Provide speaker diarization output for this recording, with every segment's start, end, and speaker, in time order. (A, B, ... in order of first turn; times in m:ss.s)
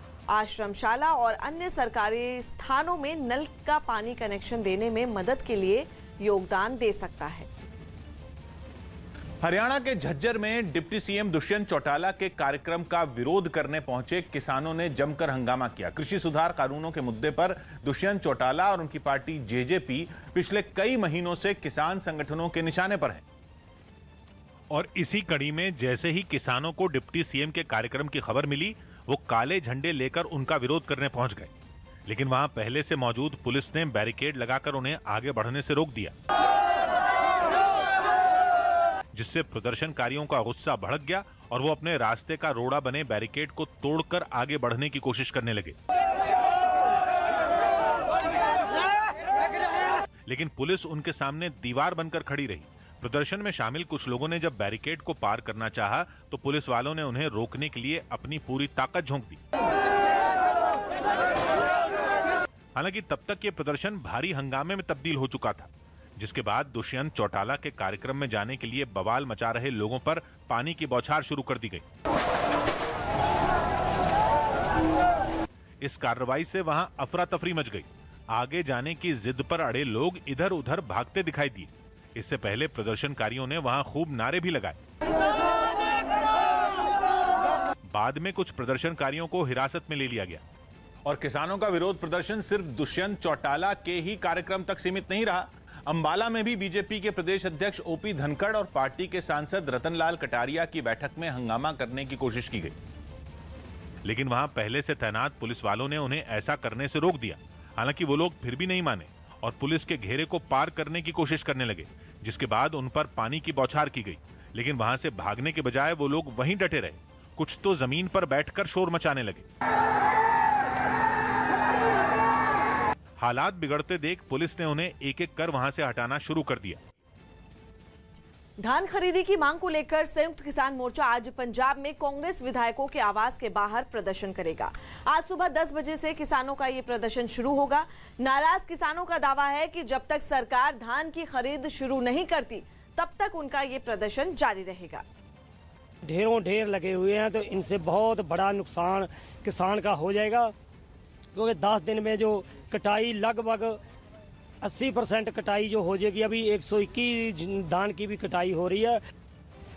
0:00.3-0:07.5 A
0:09.4-0:23.2 B
0:24.7-0:31.5 C
0:32.0-0:36.1 C
0:39.1-0:45.8 C
0:50.3-0:59.4 C
1:02.8-1:11.8 C
1:15.8-1:24.8 C
1:27.9-1:30.4 C
1:31.0-1:42.7 B
1:44.0-1:59.5 C
2:03.2-2:06.8 C
2:08.6-2:25.0 A
2:26.0-2:30.5 D
2:31.3-2:33.8 D
2:34.6-2:39.0 D